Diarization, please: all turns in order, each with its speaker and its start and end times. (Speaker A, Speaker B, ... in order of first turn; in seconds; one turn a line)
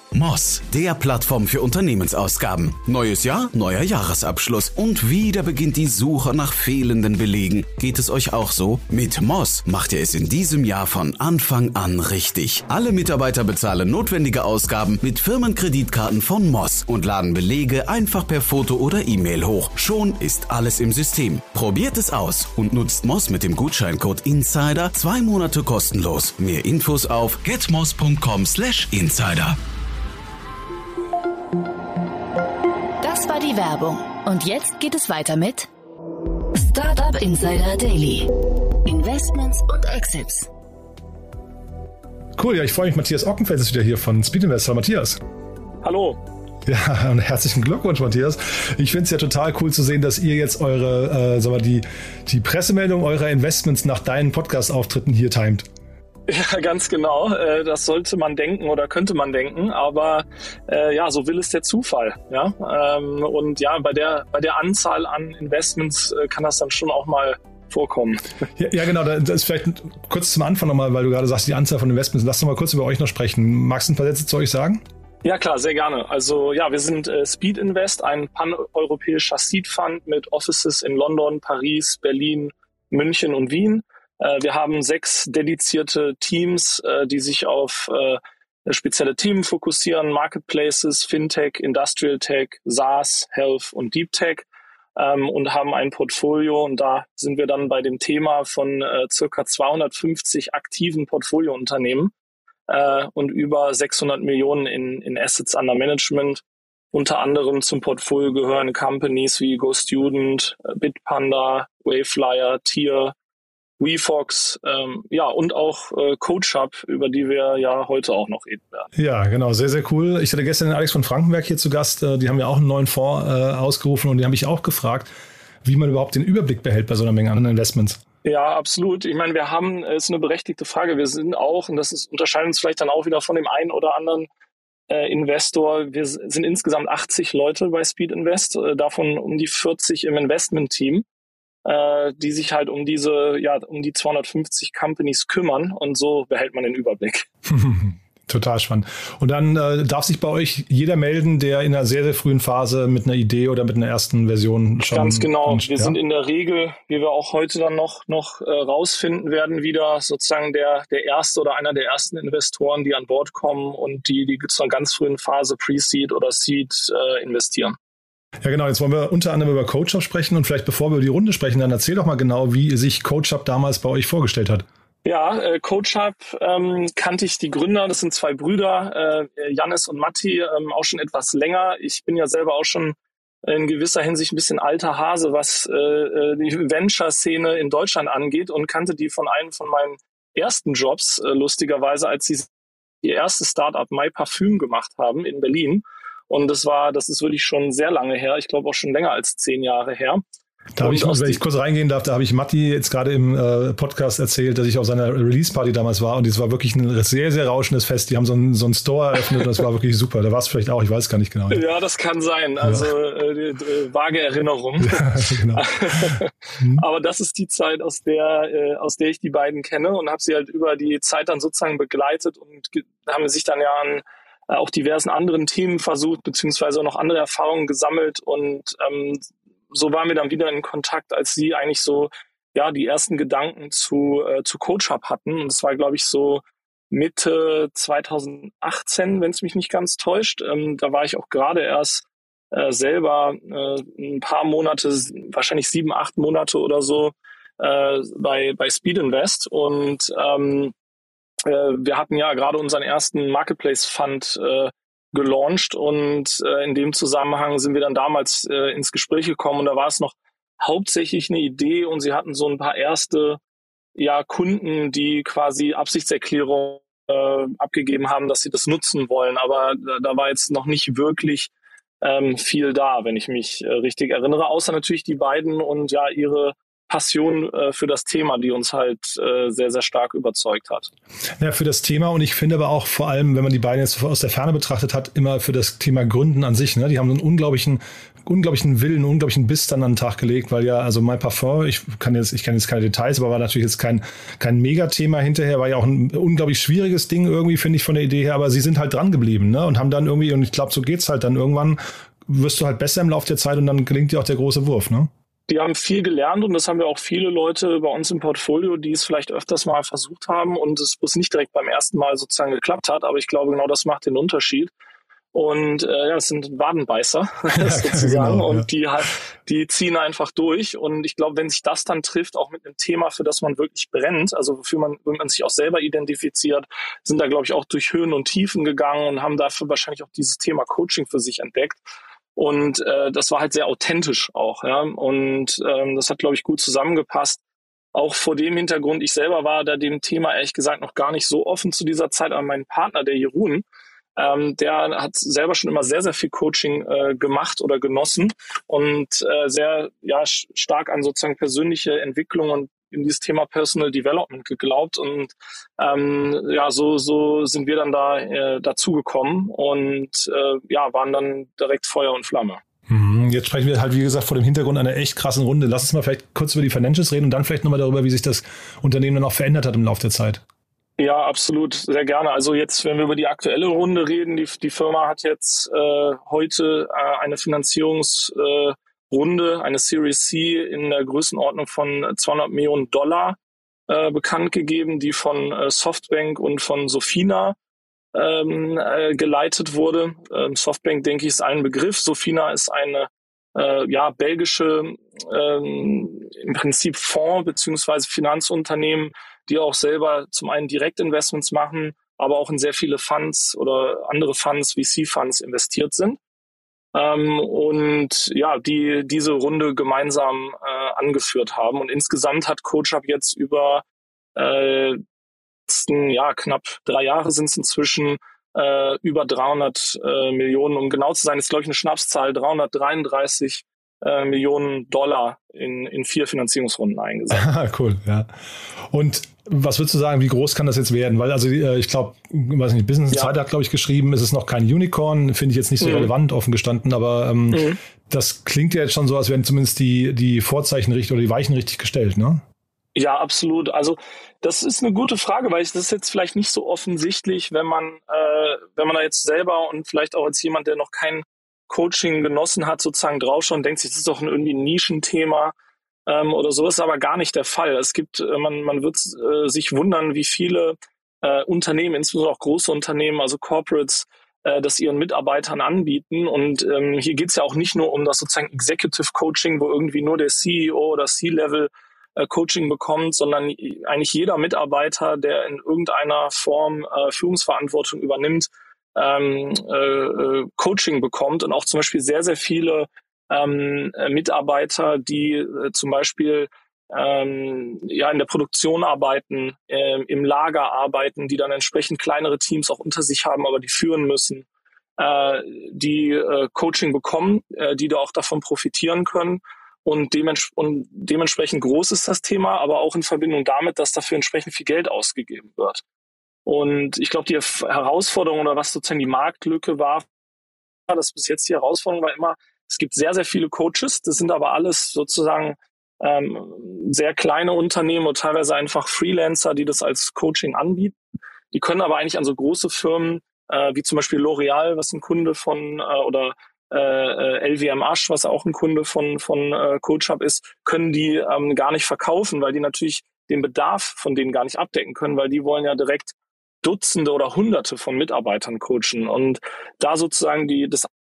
Speaker A: 0.1-29.6
Speaker B: 33.0-35.7
Speaker B: 36.5-38.3
Speaker B: 38.8-40.5
Speaker C: 42.4-45.2
Speaker D: 45.8-46.2
Speaker C: 46.6-55.7
Speaker D: 56.3-68.2
Speaker C: 68.6-74.8
Speaker D: 75.2-94.4
Speaker D: 95.0-102.1
Speaker D: 102.7-113.1
Speaker D: 113.8-118.9
Speaker C: 118.9-125.1
Speaker C: 125.6-128.0
Speaker D: 128.2-134.3
Speaker D: 134.9-141.0
Speaker D: 141.6-147.3
Speaker C: 147.4-156.0
Speaker D: 154.9-167.8
Speaker C: 168.4-174.7
Speaker D: 175.0-192.5
Speaker D: 193.0-200.2
Speaker C: 200.8-211.6
Speaker D: 200.8-201.4
Speaker D: 211.5-250.7
Speaker C: 212.6-212.9
Speaker C: 214.8-216.8
Speaker D: 251.4-263.4
Speaker D: 263.9-280.9
Speaker C: 281.4-305.1
Speaker D: 305.5-314.7
Speaker D: 315.3-331.8
Speaker C: 317.5-318.6
Speaker D: 332.4-337.4
Speaker D: 337.9-343.6
Speaker D: 344.1-362.6
Speaker C: 362.9-370.4
Speaker D: 371.0-383.4
Speaker D: 383.9-387.6
Speaker D: 388.1-406.2
Speaker D: 406.9-413.8
Speaker D: 414.4-415.0
Speaker D: 415.7-427.4
Speaker C: 427.3-442.4
Speaker D: 435.8-436.1
Speaker D: 437.5-437.8
Speaker D: 442.9-455.5
Speaker D: 456.1-494.5
Speaker D: 495.0-505.8
Speaker D: 506.4-510.0
Speaker D: 510.9-521.0
Speaker D: 521.5-540.9